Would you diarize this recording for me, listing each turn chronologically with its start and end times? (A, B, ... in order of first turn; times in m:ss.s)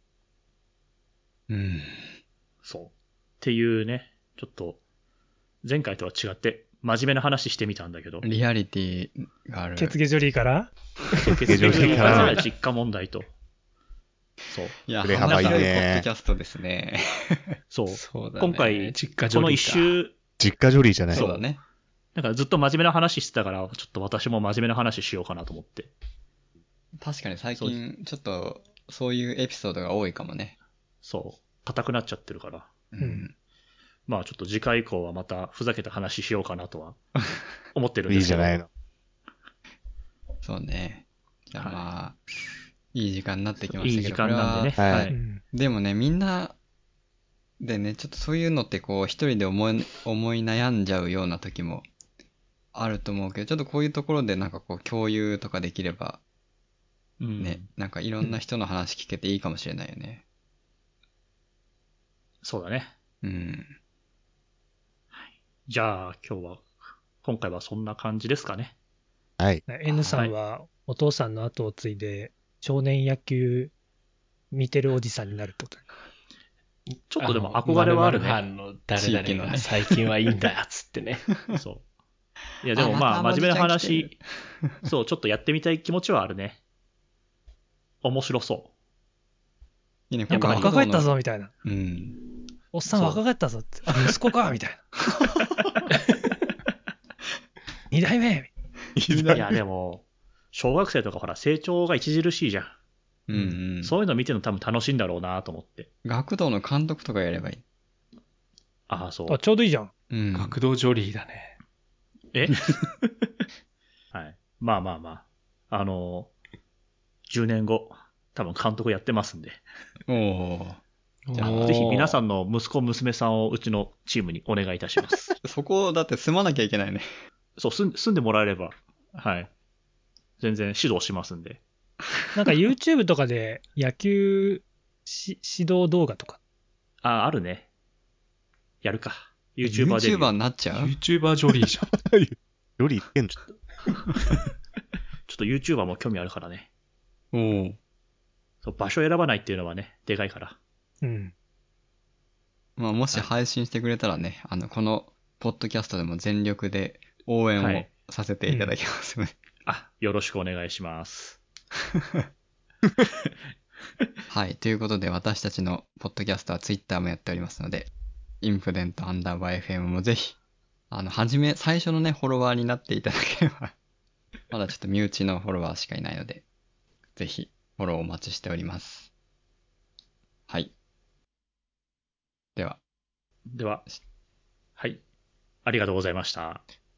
0:01.5-0:02.2 A
0:02.6-0:04.8 B
0:05.6-0:08.3 B
0:08.2-0:10.0 A
0:09.8-0:10.7 C
0:11.2-0:13.3 B
0:11.4-0:12.4 D
0:11.6-0:12.4 E
0:11.7-0:12.3 A
0:14.5-0:15.6 B
0:14.8-0:17.6 A
0:15.0-0:16.0 D
0:17.7-0:20.2 B
0:17.9-0:20.0 E
0:20.4-0:21.2 D
0:21.1-0:21.6 A
0:21.1-0:21.4 B
0:22.1-0:25.9 B
0:27.0-0:30.5 A
0:27.5-0:27.8 B
0:31.0-0:32.7 B
0:32.9-0:33.3 A
0:33.0-0:33.2 C
0:34.1-0:37.0 B
0:37.7-0:38.6 B
0:38.1-0:38.7 D
0:40.4-0:42.2 A
0:41.6-0:41.9 B
0:42.9-0:44.8 A
0:43.8-0:45.2 B
0:44.8-0:45.1 D
0:45.1-0:45.4 C
0:45.5-0:46.6 A
0:47.6-0:51.9 A
0:52.7-0:56.2 A
0:57.2-0:57.7 B
0:57.4-1:00.2 A
1:02.4-1:02.9 B
1:03.2-1:03.7 A
1:05.1-1:08.7 B
1:09.4-1:09.6 D
1:09.7-1:13.7 C
1:09.8-1:10.3 A
1:14.5-1:15.8 C
1:17.1-1:18.4 B
1:17.2-1:21.3 E
1:19.0-1:19.9 A
1:21.5-1:21.8 B
1:22.6-1:24.2 B
1:22.7-1:24.8 A
1:24.8-1:26.6 B
1:28.0-1:28.7 B
1:30.1-1:32.3 A
1:30.3-1:31.5 C
1:30.3-1:30.7 B
1:32.7-1:34.8 C
1:37.9-1:38.5 C
1:39.0-1:39.5 D
1:39.1-1:39.4 A
1:39.3-1:42.7 B
1:43.3-1:43.9 A
1:43.8-1:45.9 B
1:46.0-1:47.6 A
1:48.9-1:49.4 B
1:49.3-1:49.9 C
1:50.1-1:50.6 A
1:50.3-1:51.6 E
1:52.3-1:52.8 B
1:54.1-1:56.3 B
1:57.3-1:59.6 B
2:00.1-2:00.8 A
2:01.3-2:02.1 E
2:01.3-2:02.1 A
2:01.4-2:05.3 B
2:05.4-2:07.1 A
2:07.6-2:09.5 B
2:10.4-2:11.6 B
2:12.3-2:16.4 C
2:17.0-2:17.7 B
2:18.8-2:20.3 B
2:19.6-2:20.9 A
2:20.7-2:21.9 E
2:22.0-2:23.4 D
2:25.3-2:26.7 B
2:27.3-2:27.8 A
2:28.6-2:30.6 B
2:31.0-2:31.3 C
2:32.8-2:39.3 A
2:37.6-2:37.9 B
2:38.5-2:38.7 C
2:39.6-2:41.4 B
2:44.3-2:47.9 A
2:48.4-2:50.4 A
2:50.9-2:53.7 A
2:54.5-2:56.4 A
2:57.2-2:59.1 A
3:00.5-3:00.7 A
3:02.6-3:02.8 A
3:03.5-3:03.8 B
3:05.6-3:06.6 B